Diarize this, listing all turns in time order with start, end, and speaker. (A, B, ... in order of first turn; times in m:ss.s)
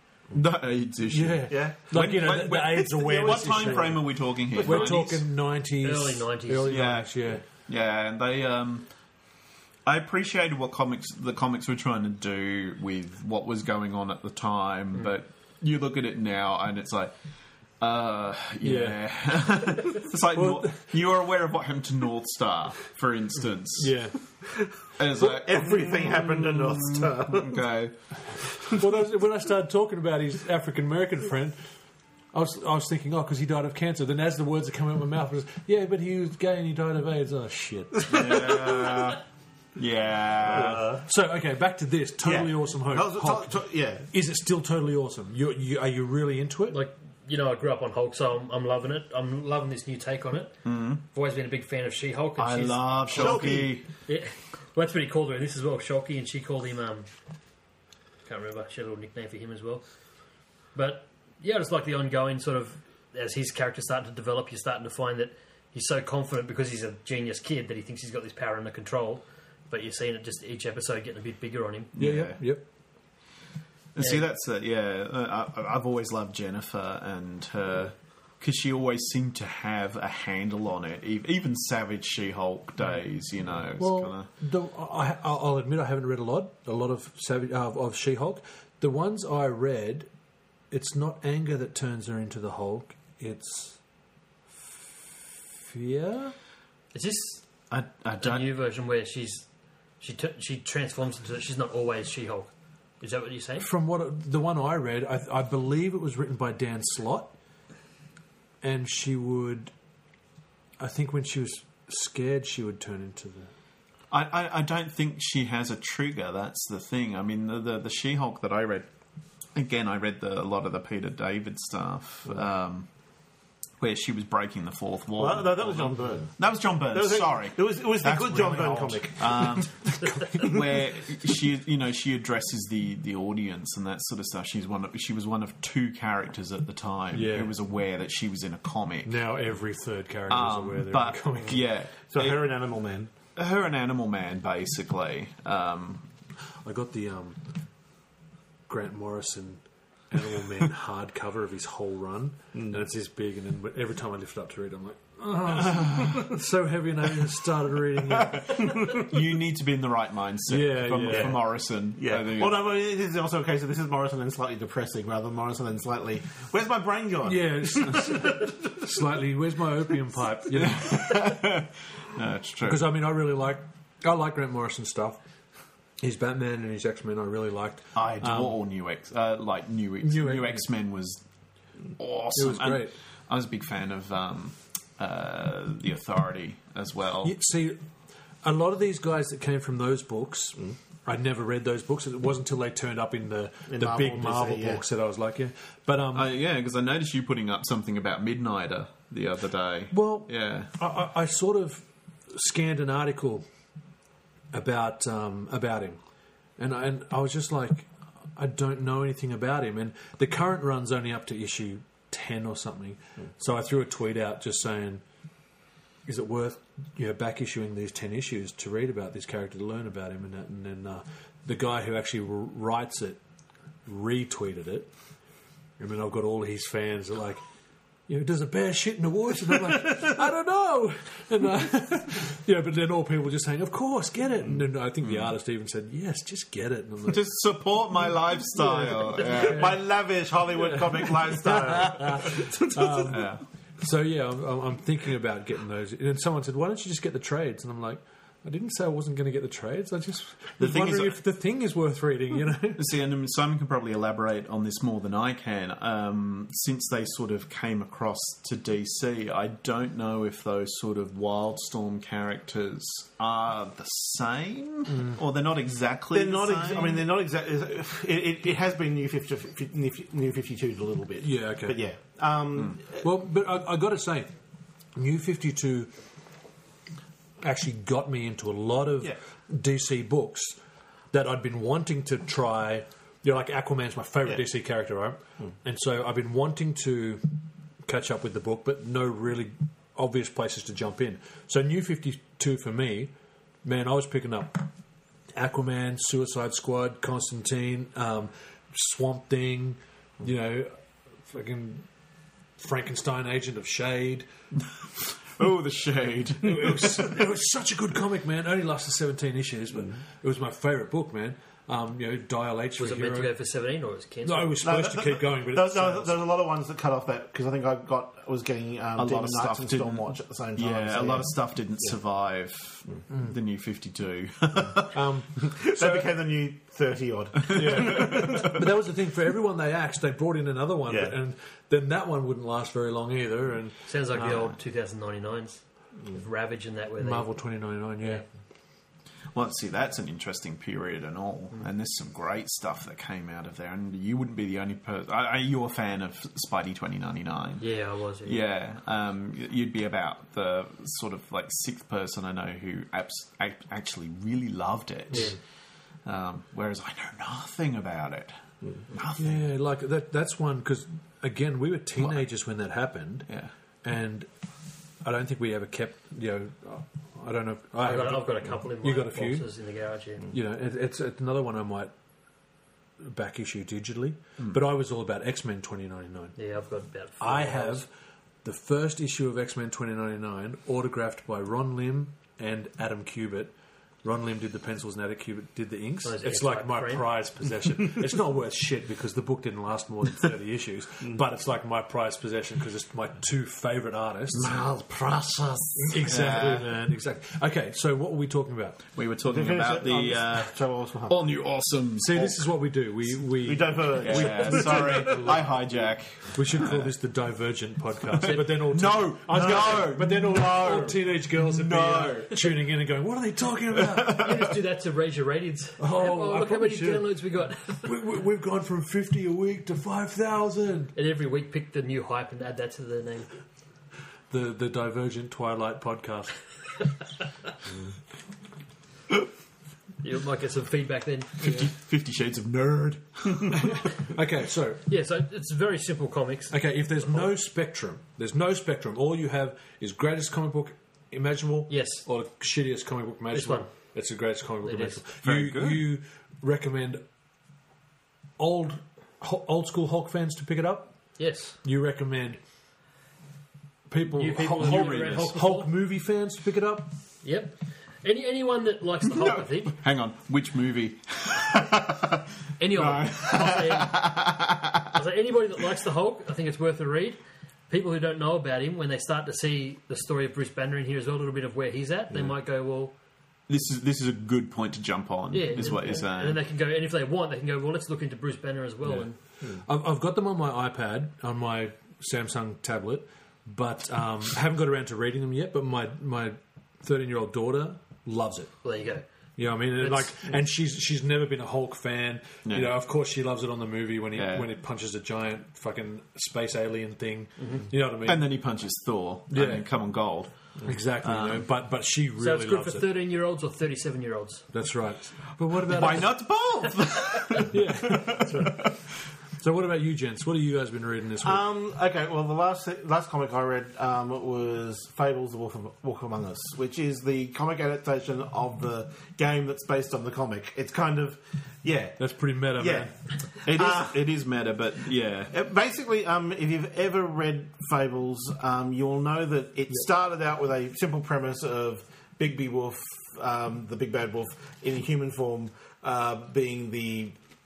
0:00.3-0:05.2 A
0:01.1-0:04.0 B
0:01.5-0:01.8 C
0:02.8-0:05.0 C
0:04.6-0:07.4 B
0:05.8-0:06.8 D
0:06.6-0:08.9 A
0:09.8-0:17.1 A
0:17.8-0:24.1 A
0:18.6-0:19.1 B
0:20.3-0:20.8 B
0:23.8-0:24.2 B
0:25.0-0:27.9 A
0:25.0-0:27.6 C
0:28.7-0:31.6 B
0:32.3-0:38.4 B
0:38.1-0:39.2 A
0:39.8-0:40.9 A
0:40.4-0:41.0 C
0:40.5-0:46.8 B
0:42.2-0:44.1 C
0:46.7-0:57.1 D
0:50.6-0:51.0 A
0:52.4-0:53.9 A
0:53.1-0:53.8 C
0:58.3-0:59.8 D
1:00.8-1:11.9 D
1:12.0-1:12.5 A
1:12.0-1:12.6 B
1:13.9-1:24.3 A
1:14.0-1:14.2 D
1:23.8-1:30.1 B
1:30.7-1:33.8 B
1:35.6-1:36.4 B
1:36.9-1:37.4 D
1:37.7-1:38.5 A
1:38.2-1:39.4 D
1:40.0-1:43.7 D
1:43.6-1:47.3 B
1:48.6-1:49.7 B
1:50.8-1:53.5 B
1:54.1-1:58.9 A
1:59.6-2:02.9 A
2:03.8-2:19.2 A
2:05.2-2:06.4 C
2:06.9-2:09.7 C
2:10.0-2:10.6 B
2:17.1-2:17.5 B
2:19.0-2:21.6 B
2:20.3-2:22.5 A
2:22.1-2:23.1 C
2:23.4-2:26.1 A
2:26.6-2:27.4 B
2:28.7-2:38.9 B
2:38.2-2:42.6 A
2:40.5-2:41.4 B
2:41.1-2:41.4 C
2:42.0-2:48.5 C
2:47.2-2:51.2 B
2:50.5-2:52.9 A
2:52.6-2:55.2 B
2:56.0-2:58.6 B
2:57.9-3:01.2 A
3:00.0-3:00.6 B
3:02.0-3:07.4 A
3:02.4-3:02.9 B
3:07.2-3:07.8 B
3:08.4-3:16.3 B
3:13.7-3:14.8 C
3:16.1-3:20.7 A
3:19.9-3:23.4 B
3:24.5-3:26.0 B
3:26.6-3:35.0 B
3:36.1-3:43.2 B
3:43.9-3:44.9 B
3:45.8-3:47.4 B
3:48.1-3:57.3 B
3:55.0-3:55.3 A
3:57.1-3:59.8 A
3:58.7-3:59.7 B
3:59.3-4:03.1 C
4:00.6-4:12.9 B
4:03.1-4:03.4 A
4:10.6-4:11.2 A
4:12.8-4:27.0 A
4:24.9-4:25.2 B
4:26.1-4:33.0 C
4:31.2-4:31.8 B
4:33.0-4:34.3 B
4:34.9-4:35.9 B
4:37.4-4:40.6 B
4:41.1-4:47.2 B
4:47.9-4:53.1 B
4:53.6-4:54.7 B
4:55.4-5:00.7 B
5:01.3-5:01.9 B
5:02.6-5:04.3 B
5:05.3-5:07.1 A
5:06.4-5:13.3 B
5:12.8-5:14.6 D
5:14.2-5:16.2 B
5:14.6-5:21.4 C
5:19.0-5:25.0 A
5:24.9-5:26.0 B
5:25.5-5:28.5 C
5:27.5-5:34.5 B
5:27.5-5:28.4 A
5:30.9-5:31.1 C
5:33.9-5:37.4 D
5:37.0-5:38.2 B
5:39.3-5:47.6 A
5:47.6-5:48.4 D
5:48.2-5:55.4 A
5:56.0-5:58.4 A
5:58.9-5:59.4 A
5:59.2-6:03.3 B
6:03.8-6:04.3 B
6:05.0-6:09.4 B
6:07.8-6:10.3 D
6:10.3-6:11.9 B
6:13.0-6:16.4 B
6:16.4-6:17.8 D
6:17.2-6:17.9 B
6:18.4-6:23.5 B
6:24.0-6:34.5 B
6:26.0-6:27.1 D
6:34.3-6:36.7 A
6:35.9-6:38.8 B
6:38.9-6:42.4 A
6:39.3-6:41.2 C
6:42.0-6:45.5 B
6:43.4-6:45.4 C
6:44.0-6:46.8 A
6:46.3-6:54.4 B
6:48.2-6:52.5 A
6:53.8-6:54.5 A
6:54.1-6:58.0 D
6:55.8-6:57.1 B
6:57.8-7:00.9 B
7:00.9-7:03.3 D
7:04.3-7:06.4 B
7:10.0-7:11.5 D
7:11.4-7:13.7 A
7:13.6-7:14.9 B
7:14.9-7:16.6 D
7:16.5-7:27.0 B
7:21.7-7:22.1 D
7:23.3-7:23.7 D
7:24.6-7:25.0 D
7:25.2-7:25.8 A
7:28.4-7:31.0 B
7:31.2-7:31.6 D
7:31.6-7:32.4 B
7:33.9-7:36.9 B
7:34.2-7:35.7 D
7:34.6-7:35.2 A
7:37.2-7:39.8 D
7:39.1-7:44.9 A
7:42.6-7:44.2 D
7:44.9-7:52.9 D
7:53.5-7:56.4 A
7:55.3-7:59.2 D
7:58.9-8:08.5 B
8:08.6-8:09.1 D
8:09.4-8:18.4 B
8:09.8-8:10.1 D
8:12.4-8:12.7 A
8:14.1-8:14.5 A
8:17.4-8:17.6 D
8:18.0-8:21.5 A
8:19.3-8:19.7 B
8:20.6-8:22.9 B
8:22.2-8:24.5 D
8:24.5-8:26.2 B
8:25.6-8:28.8 A
8:27.5-8:28.6 B
8:29.4-8:31.4 B
8:31.2-8:42.0 C
8:42.0-8:42.9 B
8:42.6-8:44.0 C
8:43.4-8:45.3 A
8:45.3-8:57.2 C